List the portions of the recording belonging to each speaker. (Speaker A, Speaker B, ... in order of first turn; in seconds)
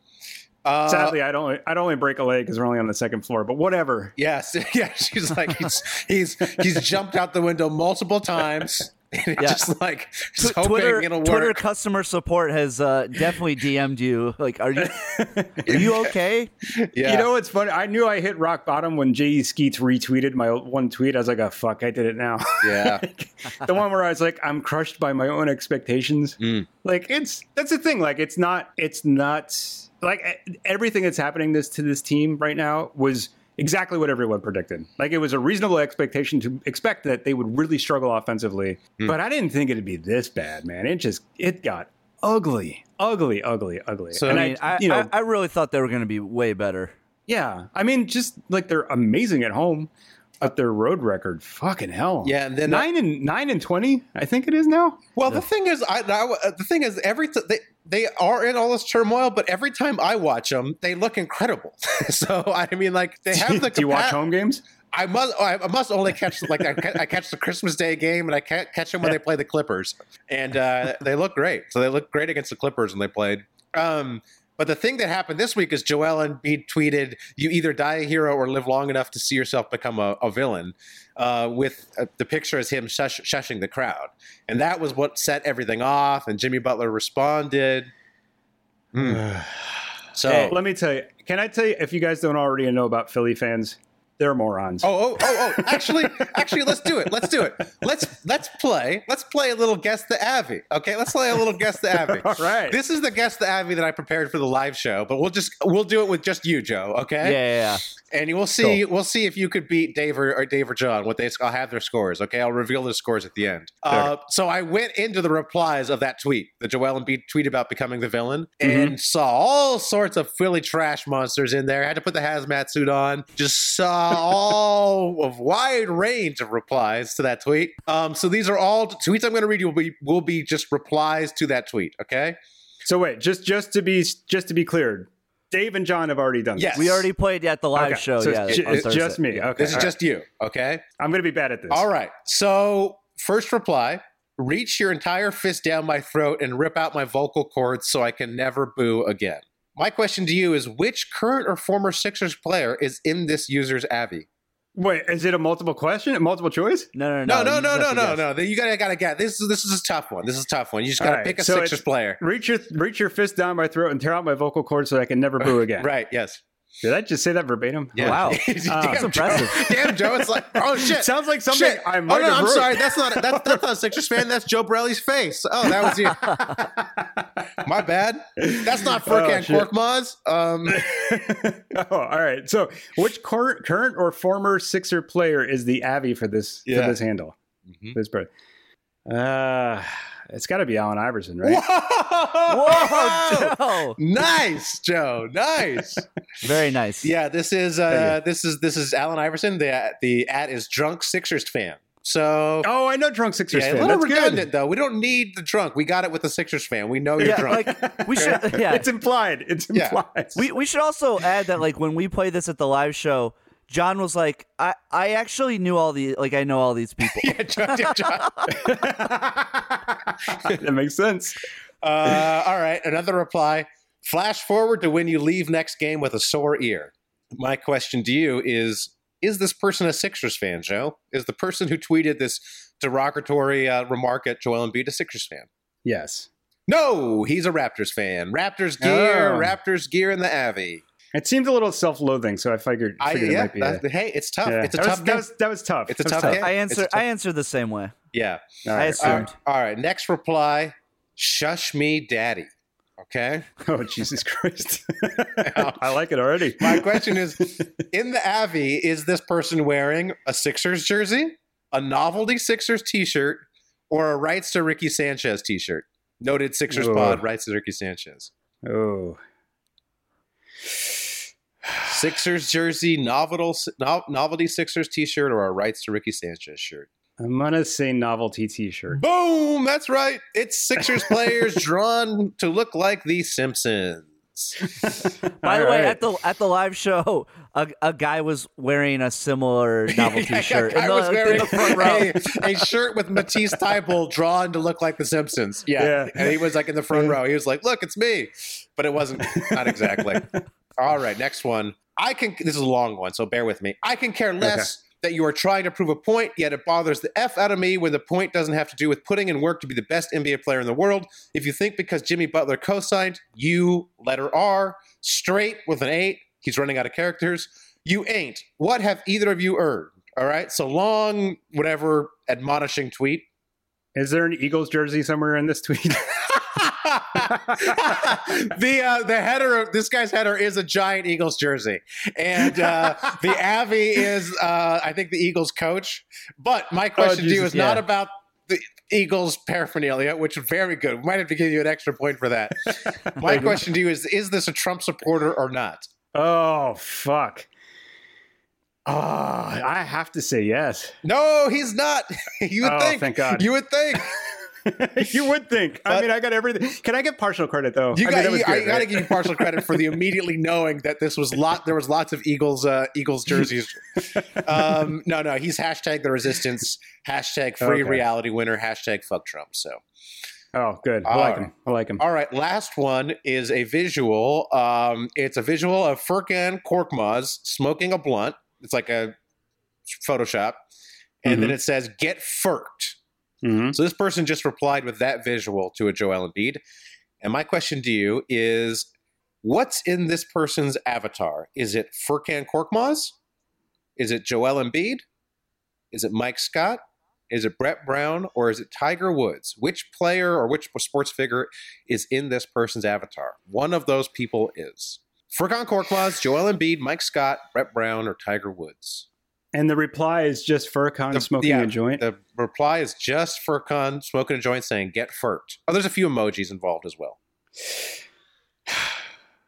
Speaker A: 0.6-1.2, 4.2-11.6, 15.7-15.9, 16.7-17.3, 22.6-23.0, 26.4-26.7, 44.1-44.5, 52.2-52.9, 55.1-64.2, 64.9-87.9, 88.9-89.2, 90.1-90.6, 94.8-107.4, 108.1-132.4, 136.6-137.0, 138.5-138.9, 139.6-140.8, 141.7-154.3, 157.2-162.2, 165.4-166.4, 167.9-176.4, 177.6-180.8, 186.7-187.0, 191.4-196.1, 197.0-202.7, 203.5-208.4, 209.7-210.0, 217.1-218.7, 221.8-235.5, 236.7-240.8, 243.0-245.3, 245.9-247.0, 248.1-248.4, 249.0-252.5, 253.0-253.5, 255.4-255.8, 256.6-268.3, 271.9-276.9, 278.9-284.6, 289.9-323.2, 326.5-345.9, 351.0-354.1, 357.9-369.8, 371.0-379.1, 379.9-380.6, 381.2-383.0, 383.7-386.6, 387.2-388.9, 389.4-393.1, 394.0-395.0, 395.9-409.1, 411.1-417.2
Speaker B: 0.9-4.1, 14.8-15.8, 17.0-45.1, 47.3-49.9, 50.4-55.0, 63.3-64.6, 89.0-96.0, 102.0-102.8, 118.6-118.9, 132.8-137.0, 137.7-139.9, 141.0-141.8, 154.7-156.9, 161.0-165.9, 166.8-169.9, 170.6-173.6, 175.8-177.2, 178.4-179.7, 180.7-187.3, 187.9-188.3, 189.1-191.6, 197.9-198.2, 202.6-204.5, 207.2-210.4, 218.5-221.4, 235.8-236.3, 238.8-239.5, 241.1-243.8, 244.4-246.4, 248.6-249.3, 253.6-257.6, 266.7-267.2, 268.6-269.2, 277.2-279.0, 284.8-286.0, 295.8-297.2, 299.4-300.1, 323.9-326.4, 327.2-328.1, 337.0-337.8, 346.1-347.5, 348.9-350.9, 352.6-353.5, 354.6-359.7, 367.6-368.0, 370.5-372.0, 381.2-381.5, 383.4-383.8, 409.5-412.0
Speaker C: 9.4-9.6, 10.4-15.1, 15.6-16.5, 44.3-46.9, 107.2-107.8, 136.7-139.9, 156.9-158.2, 168.0-169.6, 192.5-194.0, 196.4-197.1, 207.2-208.8, 210.3-218.5, 246.2-247.9, 248.7-249.3, 285.4-292.6